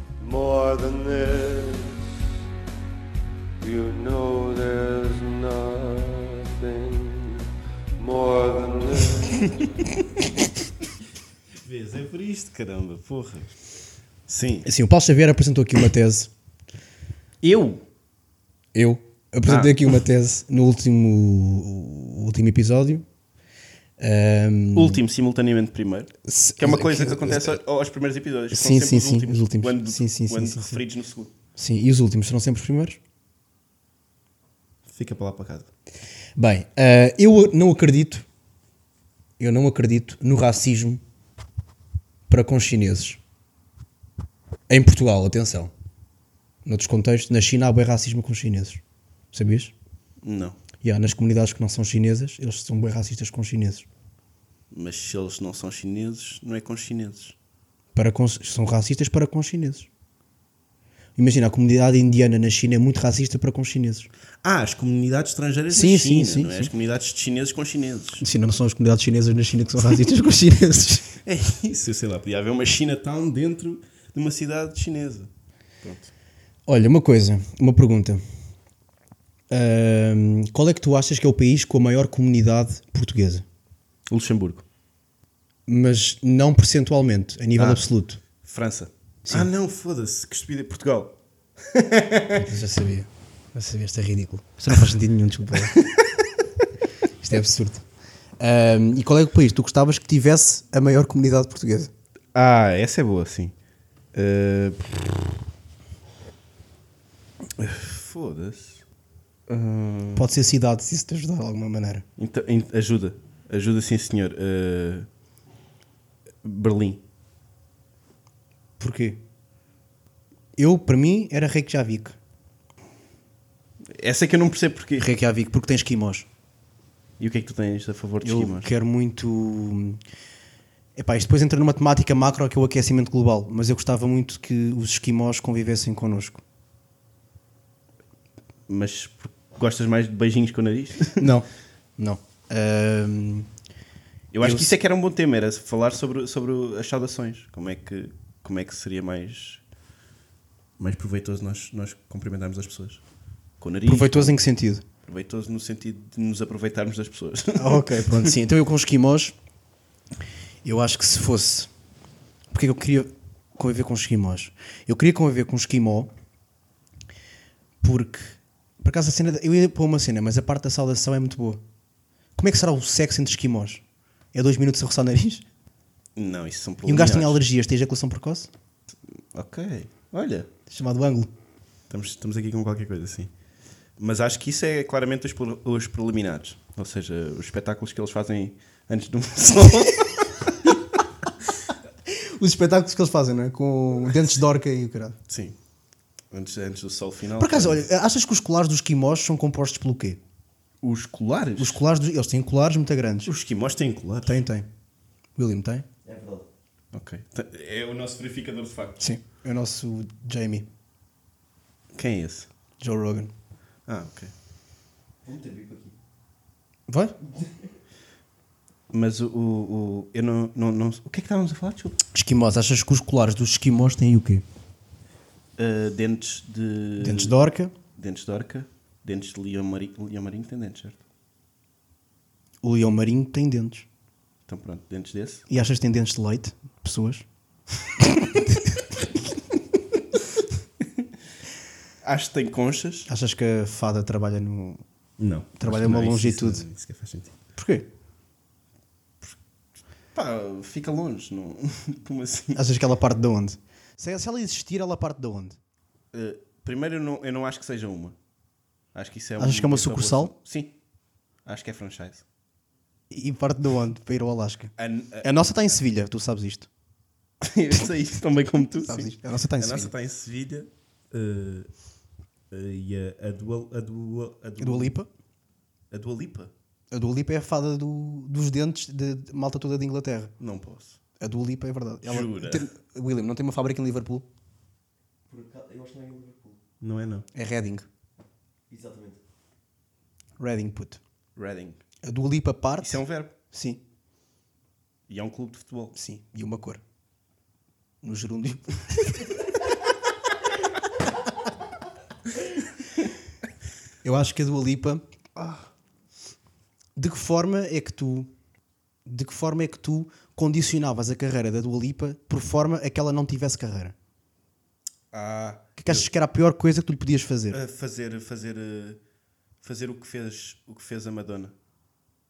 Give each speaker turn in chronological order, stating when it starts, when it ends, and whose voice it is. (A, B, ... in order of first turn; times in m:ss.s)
0:00.2-0:02.0 A
0:03.6-0:07.4 A
0:08.0-0:09.7 A
0:11.5-0:13.6 B
0:14.2-0:14.7 B
0:14.6-0:16.3 C
0:17.4-0:17.8 B
0:18.7-0:23.0 C
0:19.4-0:20.0 B
0:24.0-0:25.0 C
0:24.7-0:31.3 B
0:26.2-0:27.6 C
0:28.5-0:30.8 C
0:31.6-0:33.0 C
0:34.8-0:35.7 B
0:36.4-0:38.2 C
0:39.4-0:41.0 C
0:42.3-0:43.2 C
0:44.7-0:45.7 C
0:46.6-0:48.8 C
0:49.3-0:49.7 C
0:50.2-0:50.6 B
0:50.8-0:53.9 C
0:54.7-0:57.4 B
0:57.9-0:59.9 C
1:01.2-1:04.1 C
1:04.4-1:08.2 B
1:05.7-1:06.7 C
1:08.2-1:11.1 C
1:11.2-1:15.3 B
1:15.8-1:16.1 B
1:16.7-1:18.2 C
1:19.5-1:23.4 C
1:24.1-1:24.6 B
1:25.7-1:28.2 C
1:27.6-1:27.9 B
1:28.4-1:32.4 B
1:29.2-1:29.5 C
1:32.3-1:35.8 C
1:35.8-1:36.0 B
1:37.2-1:37.8 C
1:38.4-1:41.9 C
1:42.3-1:43.5 B
1:44.1-1:45.2 B
1:47.6-1:48.8 B
1:49.5-1:50.3 B
1:50.1-1:52.0 C
1:52.2-1:55.1 B
1:56.4-1:57.0 B
1:58.8-1:59.2 C
2:00.6-2:02.2 C
2:03.9-2:05.1 B
2:05.0-2:06.3 C
2:07.2-2:08.7 B
2:08.2-2:10.0 C
2:11.0-2:16.4 C
2:18.7-2:21.3 B
2:21.2-2:23.5 C
2:24.3-2:29.6 B
2:24.4-2:24.7 C
2:30.8-2:33.0 B
2:33.6-2:34.4 B
2:33.9-2:34.8 C
2:35.0-2:38.3 B
2:37.6-2:39.3 C
2:40.6-2:41.7 C
2:42.5-2:46.1 C
2:47.8-2:51.6 C
2:52.4-2:55.4 C
2:56.2-2:57.4 B
2:56.8-2:58.5 C
2:59.1-3:00.5 B
3:00.7-3:01.3 C
3:01.9-3:03.3 B
3:04.0-3:10.7 B
3:12.1-3:15.2 C
3:15.3-3:15.6 B
3:16.3-3:17.8 B
3:17.4-3:20.2 C
3:20.8-3:21.8 B
3:21.6-3:23.3 C
3:23.2-3:24.4 B
3:24.2-3:24.7 C
3:25.4-3:25.9 C
3:26.0-3:26.5 D
3:26.9-3:29.0 B
3:29.0-3:30.7 C
3:31.9-3:32.5 B
3:32.8-3:33.3 C
3:33.8-3:34.3 B
3:35.2-3:36.0 D
3:36.9-3:37.2 C
3:38.9-3:42.0 B
3:42.1-3:44.4 C
3:45.6-3:47.4 B
3:47.0-3:47.7 C
3:47.9-3:51.0 B
3:52.6-3:53.9 C
3:54.5-3:55.4 B
3:55.5-3:57.2 C
3:58.0-3:58.5 C
4:00.8-4:01.1 B
4:02.0-4:03.1 B
4:03.1-4:04.8 C
4:05.2-4:07.4 B
4:05.6-4:06.6 C
4:07.6-4:07.9 C
4:10.1-4:12.6 B
4:12.5-4:15.6 C
4:16.1-4:18.2 B
4:18.9-4:20.7 B
4:19.4-4:20.3 C
4:21.4-4:22.2 B
4:23.1-4:26.7 C
4:24.8-4:25.3 B
4:27.4-4:31.7 B
4:28.7-4:29.9 C
4:32.5-4:35.0 B
4:34.6-4:35.1 C
4:35.9-4:36.5 B
4:36.9-4:40.3 C
4:40.4-4:41.0 B
4:41.2-4:44.3 C
4:42.0-4:42.7 B
4:45.3-4:46.6 D
4:46.8-4:47.3 B
4:47.3-4:47.9 C
4:48.7-4:49.2 D
4:50.4-4:51.0 C
4:51.4-4:51.8 B
4:52.0-4:53.8 C
4:52.8-4:53.3 B
4:55.1-4:55.9 B
4:55.9-4:56.8 C
4:58.0-4:59.3 C
5:04.0-5:05.0 C
5:05.4-5:05.7 B
5:07.0-5:08.3 C
5:09.0-5:13.9 C
5:15.1-5:16.1 B
5:15.8-5:17.6 C
5:17.5-5:19.0 B
5:19.6-5:21.5 B